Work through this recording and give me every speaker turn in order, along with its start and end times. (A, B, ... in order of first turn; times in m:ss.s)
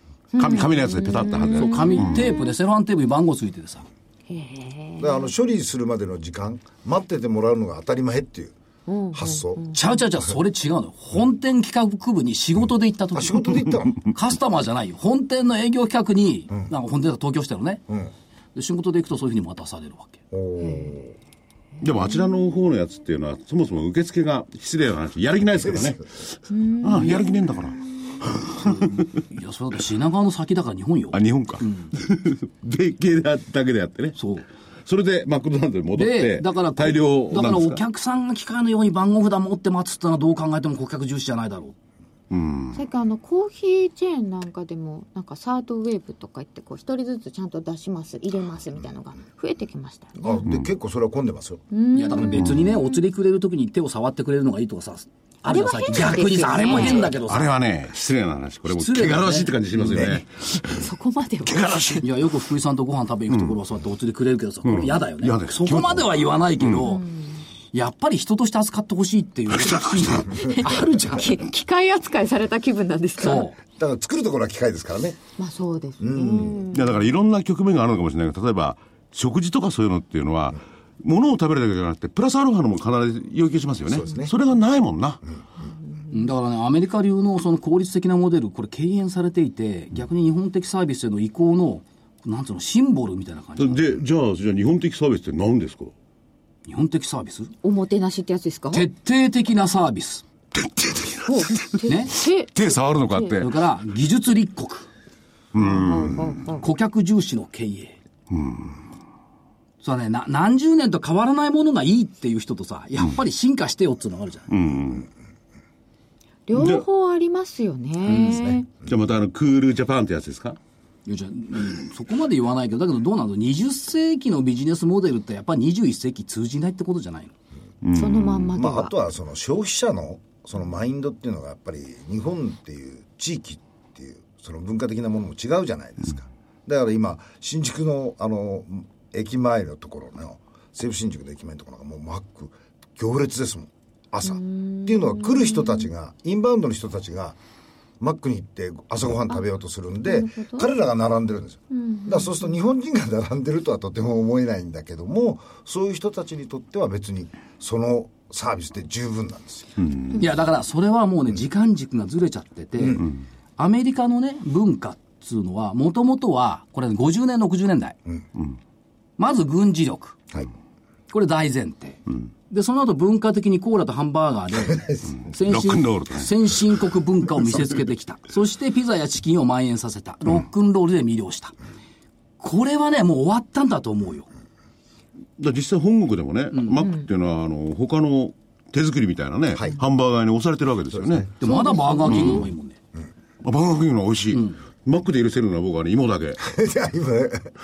0:00.3-0:02.5 A
0:00.4-0:02.2 B
0:01.5-0:03.8 C
0:04.3-0:05.3 A
0:05.0-0:08.5 D
0:08.9-0:09.8 A
0:09.1-0:09.7 D
0:09.7-0:17.8 C
0:13.1-0:14.0 D
0:18.5-0:20.2 C
0:20.3-0:21.1 D
0:20.6-0:20.9 A
0:21.8-0:29.0 B
0:26.5-0:27.4 A
0:28.6-0:31.9 C
0:31.1-0:34.2 B
0:34.1-0:34.4 C
0:34.8-0:37.8 B
0:36.0-0:41.7 C
0:42.3-0:42.8 B
0:42.7-0:50.4 A
0:50.2-0:51.6 D
0:51.7-0:53.0 A
0:51.9-0:57.5 C
0:52.3-0:52.6 B
0:55.5-0:57.1 A
0:57.0-1:00.9 B
0:58.7-1:00.1 C
0:59.8-1:00.2 D
1:00.7-1:02.0 A
1:01.4-1:02.0 B
1:02.0-1:07.0 C
1:04.6-1:06.9 B
1:06.8-1:07.4 A
1:07.7-1:11.3 C
1:09.5-1:10.4 B
1:10.4-1:13.5 A
1:13.2-1:13.6 C
1:13.8-1:15.2 D
1:15.4-1:16.9 A
1:16.0-1:16.6 D
1:16.7-1:25.2 B
1:23.9-1:24.3 D
1:25.8-1:26.1 A
1:26.1-1:33.9 C
1:33.6-1:35.9 B
1:36.6-1:37.5 C
1:37.6-1:38.9 A
1:38.7-1:40.2 C
1:40.5-1:41.9 B
1:41.2-1:43.4 A
1:41.8-1:42.2 C
1:42.5-1:43.5 B
1:43.3-1:44.9 C
1:45.5-1:46.4 B
1:45.5-1:46.6 A
1:46.6-1:48.0 C
1:48.3-1:48.8 B
1:49.8-1:54.5 C
1:54.5-1:55.1 B
1:56.5-1:58.7 A
1:56.5-1:56.8 B
1:58.1-1:58.4 C
1:58.1-1:58.6 D
1:58.8-2:00.6 B
2:01.0-2:07.3 C
2:07.8-2:08.6 B
2:07.9-2:08.9 A
2:08.6-2:27.4 D
2:24.2-2:25.9 A
2:28.0-2:39.7 D
2:30.0-2:30.7 A
2:31.7-2:32.6 A
2:39.8-2:40.2 B
2:40.2-2:48.0 C
2:42.8-2:43.1 D
2:49.2-2:50.2 C
2:51.1-3:01.5 C
2:55.2-2:56.3 B
3:02.4-3:04.3 C
3:05.4-3:11.3 B
3:06.5-3:06.9 C
3:10.9-3:11.3 D
3:11.4-3:12.8 C
3:11.4-3:12.5 A
3:12.1-3:12.4 B
3:13.4-3:16.4 B
3:14.3-3:14.6 C
3:16.4-3:17.5 D